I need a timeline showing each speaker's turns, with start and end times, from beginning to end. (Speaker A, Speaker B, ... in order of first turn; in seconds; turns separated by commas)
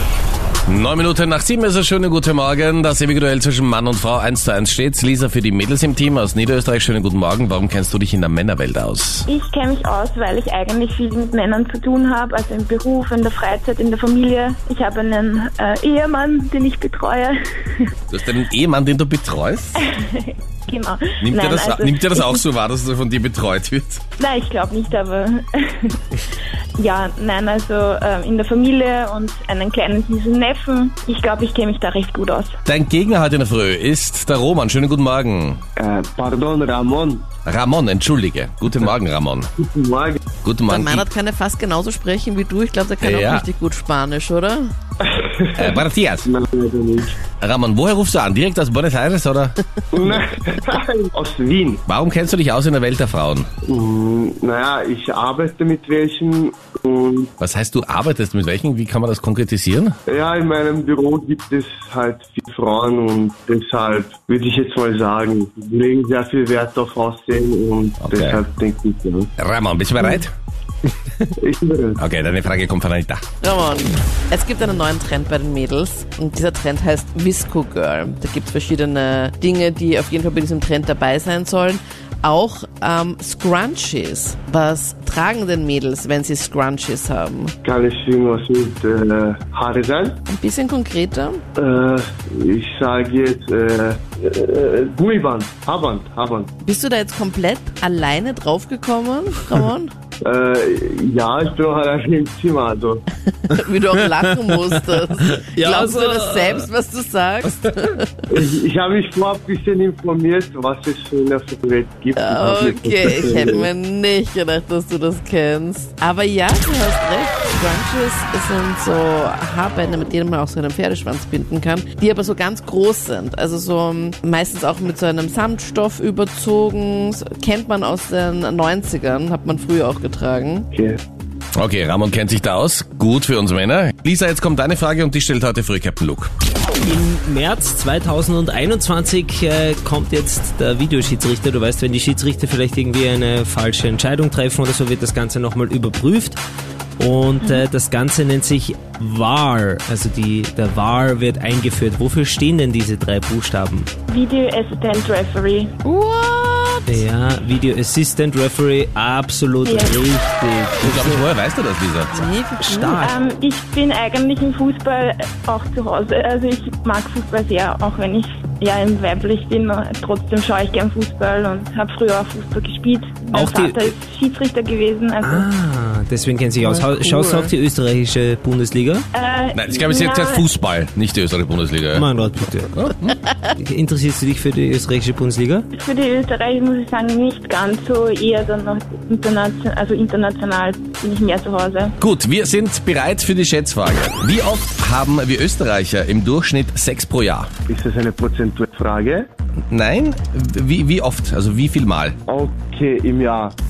Speaker A: 0.7-9.2, Speaker B: 9.3-17.9, Speaker A: 18.1-19.8, Speaker B: 19.8-22.4, Speaker A: 21.2-24.0, Speaker B: 24.2-26.0, Speaker B: 26.8-32.5, Speaker A: 32.7-35.6, Speaker C: 35.8-37.3, Speaker A: 37.4-39.5, Speaker C: 39.6-40.3, Speaker A: 40.3-41.0, Speaker D: 40.7-44.7, Speaker A: 43.0-43.5, Speaker C: 45.0-47.3, Speaker A: 45.6-46.3, Speaker A: 47.4-49.6, Speaker C: 49.9-51.8, Speaker A: 51.9-53.5, Speaker C: 53.6-57.3, Speaker A: 57.4-60.0, Speaker C: 60.1-69.3, Speaker A: 68.0-68.4, Speaker A: 69.4-70.3, Speaker C: 71.4-72.0, Speaker A: 72.0-73.2, Speaker D: 73.4-87.5, Speaker C: 87.6-90.2, Speaker D: 90.3-91.4, Speaker C: 91.5-96.5, Speaker D: 96.6-99.9, Speaker C: 100.2-103.0, Speaker D: 103.4-108.3, Speaker E: 103.5-106.7, Speaker C: 108.3-113.7, Speaker D: 112.2-130.7, Speaker C: 130.7-131.0, Speaker A: 131.6-136.3, Speaker E: 136.8-146.4, Speaker E: 147.0-153.9, Speaker B: 154.1-155.7, Speaker D: 155.8-157.1, Speaker E: 156.9-161.2, Speaker B: 159.7-160.0, Speaker A: 160.8-162.2, Speaker D: 160.9-161.2, Speaker D: 162.1-163.1, Speaker E: 162.6-163.2, Speaker B: 163.0-175.5, Speaker E: 173.3-173.9, Speaker E: 175.2-179.1, Speaker D: 176.6-177.5, Speaker B: 179.1-180.5, Speaker A: 179.5-182.1, Speaker E: 181.9-182.8, Speaker A: 182.7-183.2, Speaker E: 183.4-185.7, Speaker B: 185.7-191.9, Speaker A: 192.0-197.5, Speaker C: 197.7-199.3, Speaker A: 199.7-202.2, Speaker C: 202.3-203.6